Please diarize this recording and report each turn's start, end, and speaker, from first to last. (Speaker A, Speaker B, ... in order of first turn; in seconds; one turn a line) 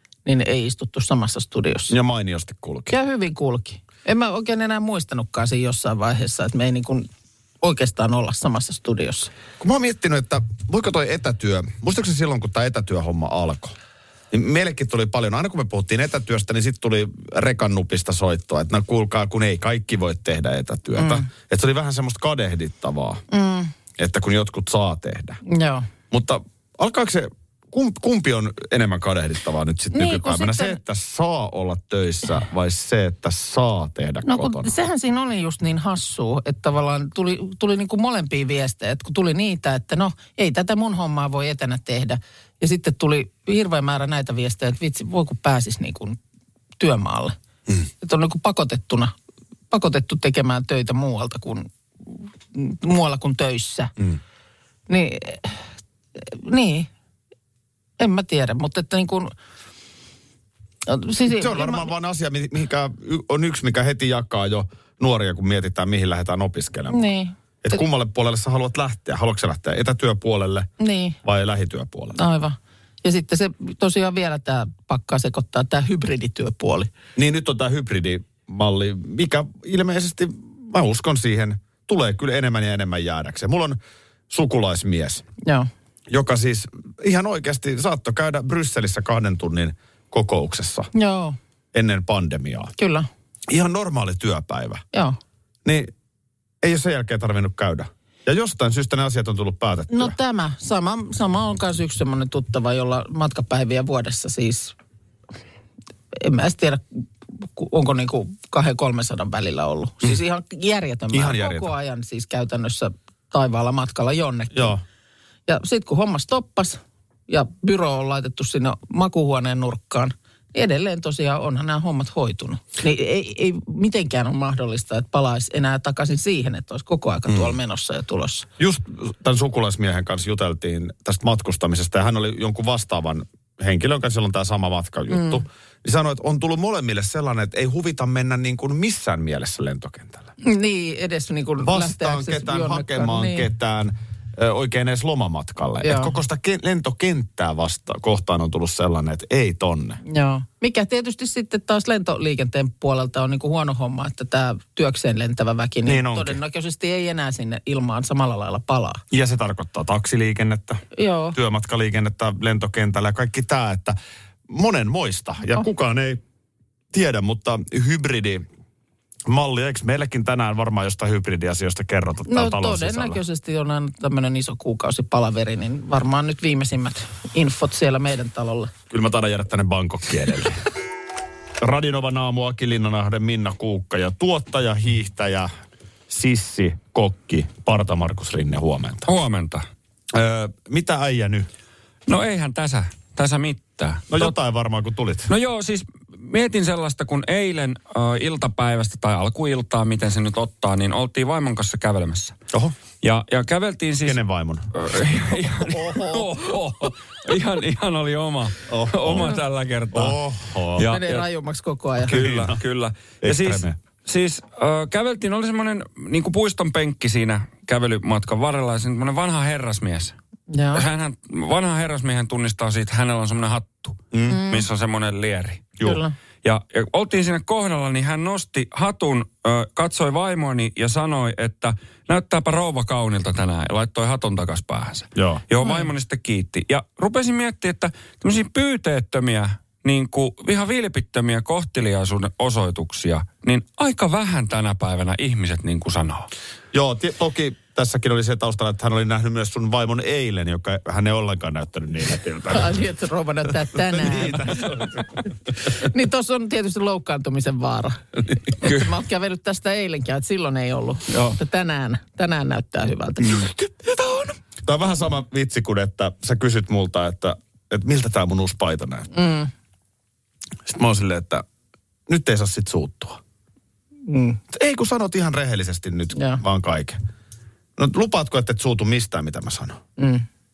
Speaker A: 0.2-1.9
Speaker B: 1.9-2.9
Speaker A: 2.9-7.1
Speaker A: 7.6-9.3
Speaker B: 9.6-13.8
Speaker B: 14.3-23.2
Speaker A: 21.0-21.3
Speaker A: 23.3-23.7
Speaker B: 24.0-25.4
Speaker A: 25.4-25.9
Speaker B: 26.1-34.7
Speaker A: 29.9-30.8
Speaker A: 34.3-46.2
Speaker A: 46.8-47.4
Speaker A: 48.0-49.1
Speaker A: 49.7-53.9
Speaker A: 54.9-55.6
Speaker A: 56.2-56.9
Speaker A: 58.0-59.3
Speaker A: 60.9-61.9
Speaker B: 61.3-67.0
Speaker A: 66.9-67.8
Speaker B: 67.6-70.7
Speaker A: 70.8-71.2
Speaker B: 71.2-72.2
Speaker A: 72.2-76.9
Speaker B: 77.2-83.8
Speaker B: 84.3-85.3
Speaker A: 85.4-85.7
Speaker B: 86.1-90.9
Speaker A: 90.9-91.4
Speaker B: 91.7-92.7
Speaker A: 92.8-93.1
Speaker B: 93.5-94.8
Speaker A: 94.9-95.2
Speaker B: 95.7-95.9
Speaker B: 96.6-100.2
Speaker A: 99.9-104.8
Speaker A: 106.1-106.8
Speaker A: 107.4-114.8
Speaker B: 111.1-111.7
Speaker B: 114.5-114.8
Speaker A: 115.5-128.5
Speaker B: 127.3-127.5
Speaker B: 128.6-140.3
Speaker A: 135.1-135.4
Speaker A: 140.4-143.5
Speaker B: 141.6-150.0
Speaker A: 145.8-146.2
Speaker A: 150.1-159.0
Speaker B: 155.9-156.4
Speaker B: 159.1-160.8
Speaker A: 160.9-161.4
Speaker B: 161.3-164.0
Speaker B: 164.5-166.2
Speaker B: 166.9-168.4
Speaker B: 169.3-173.2
Speaker A: 172.3-178.7
Speaker B: 178.9-180.6
Speaker B: 181.6-185.5
Speaker B: 186.1-189.1
Speaker C: 189.1-189.7
Speaker B: 190.1-191.5
Speaker C: 192.1-194.3
Speaker B: 194.1-195.3
Speaker C: 195.3-202.4
Speaker C: 203.0-204.2
Speaker B: 204.0-206.9
Speaker C: 204.8-210.2
Speaker B: 208.7-209.4
Speaker B: 209.9-210.9
Speaker C: 210.8-211.2
Speaker A: 210.8-212.2
Speaker B: 212.1-212.6
Speaker C: 212.1-220.2
Speaker B: 213.2-213.8
Speaker A: 220.5-220.8
Speaker C: 220.8-225.8
Speaker B: 224.1-224.4
Speaker A: 224.3-224.7
Speaker A: 225.8-226.1
Speaker C: 226.4-246.3
Speaker B: 235.2-235.4
Speaker A: 235.6-235.9
Speaker B: 246.7-252.8
Speaker A: 252.5-254.6
Speaker B: 253.7-255.3
Speaker A: 255.7-264.4
Speaker B: 264.6-269.1
Speaker A: 269.1-269.5
Speaker B: 270.6-271.4
Speaker B: 272.1-273.2
Speaker A: 274.1-274.4
Speaker B: 274.5-277.0
Speaker A: 276.1-276.4
Speaker B: 277.8-279.8
Speaker A: 280.0-280.2